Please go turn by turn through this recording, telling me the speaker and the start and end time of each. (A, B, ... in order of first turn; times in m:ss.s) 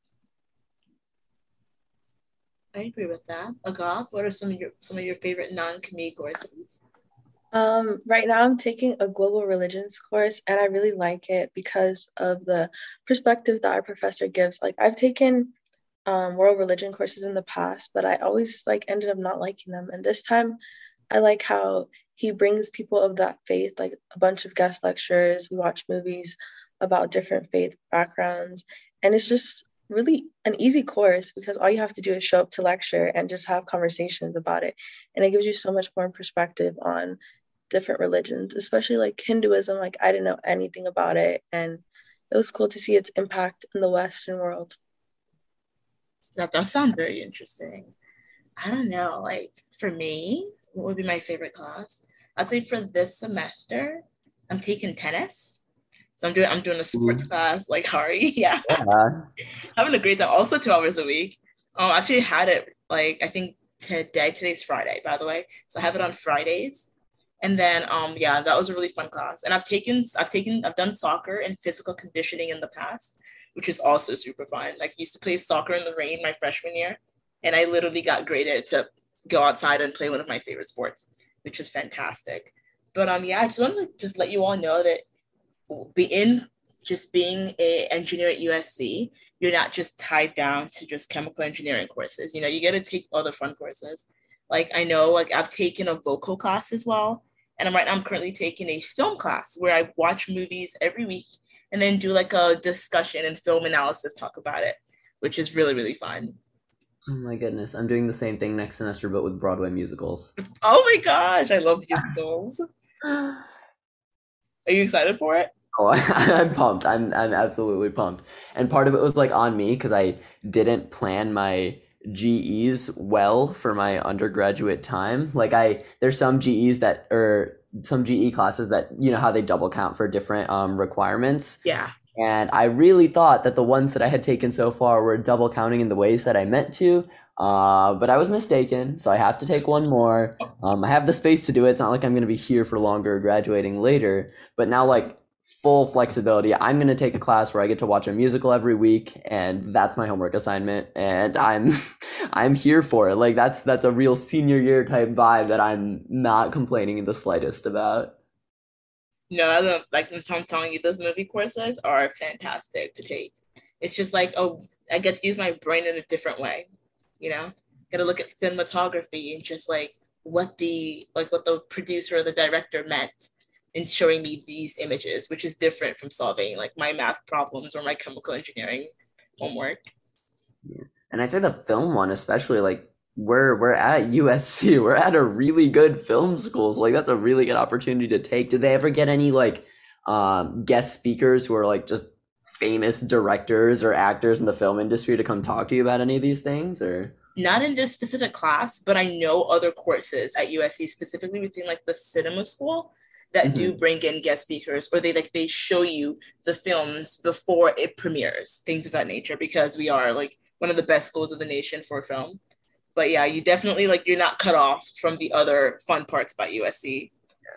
0:02.7-0:06.8 A
0:07.5-0:15.5 B
0:16.0-0:20.6 B
0:21.1-0:37.2 B
0:37.7-0:44.8 B
0:46.4-0:47.9 A
0:48.6-0:55.6 A
0:56.2-0:58.8 A
0:56.9-0:57.2 C
0:58.7-0:59.3 C
0:59.8-1:06.9 A
1:07.4-1:25.0 A
1:25.7-1:46.4 A
1:47.1-1:50.3 C
1:50.6-1:52.6 A
1:54.6-1:55.5 A
1:55.7-2:11.6 C
2:11.6-2:11.9 A
2:12.2-2:38.2 C
2:39.3-2:46.7 A
2:47.2-2:59.9 A
3:00.6-3:17.1 C
3:17.4-3:32.4 A
3:23.4-3:23.8 C
3:33.0-3:37.1 A